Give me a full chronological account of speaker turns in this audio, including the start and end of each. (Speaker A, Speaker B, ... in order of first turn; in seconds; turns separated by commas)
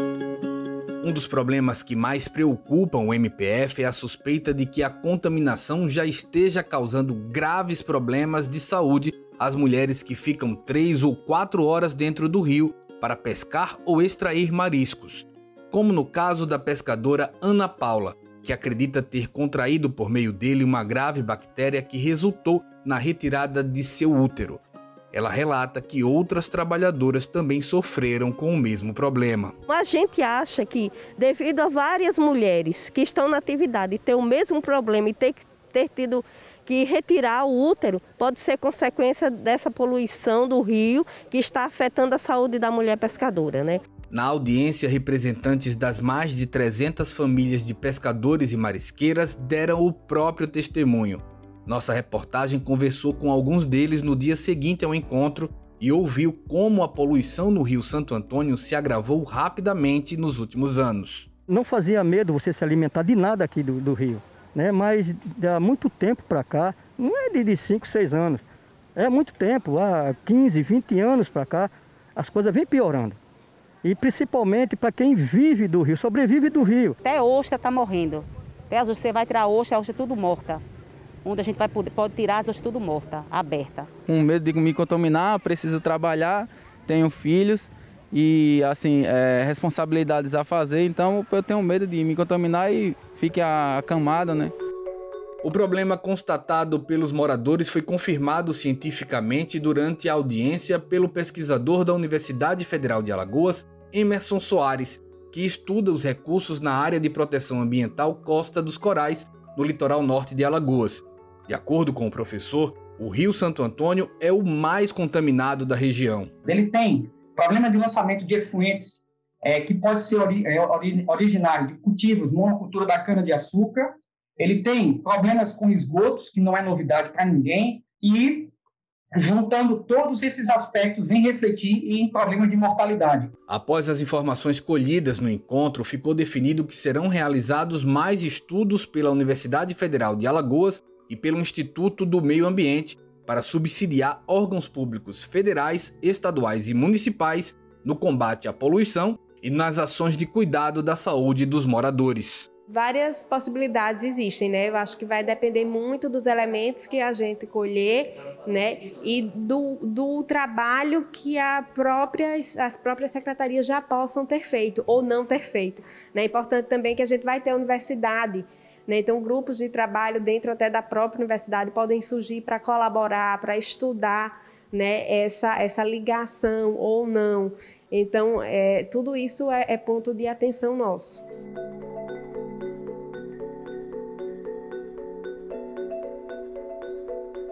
Speaker A: 1.0-24.6, Speaker A: 25.1-29.5, Speaker B: 29.7-43.8, Speaker A: 44.1-61.3, Speaker C: 61.5-68.5, Speaker C: 69.0-73.2, Speaker C: 73.8-77.0, Speaker D: 77.1-80.6, Speaker D: 81.2-83.9, Speaker E: 84.1-94.5, Speaker A: 95.4-116.3, Speaker F: 116.5-128.5, Speaker F: 129.1-133.3, Speaker A: 133.5-152.5, Speaker G: 152.7-181.2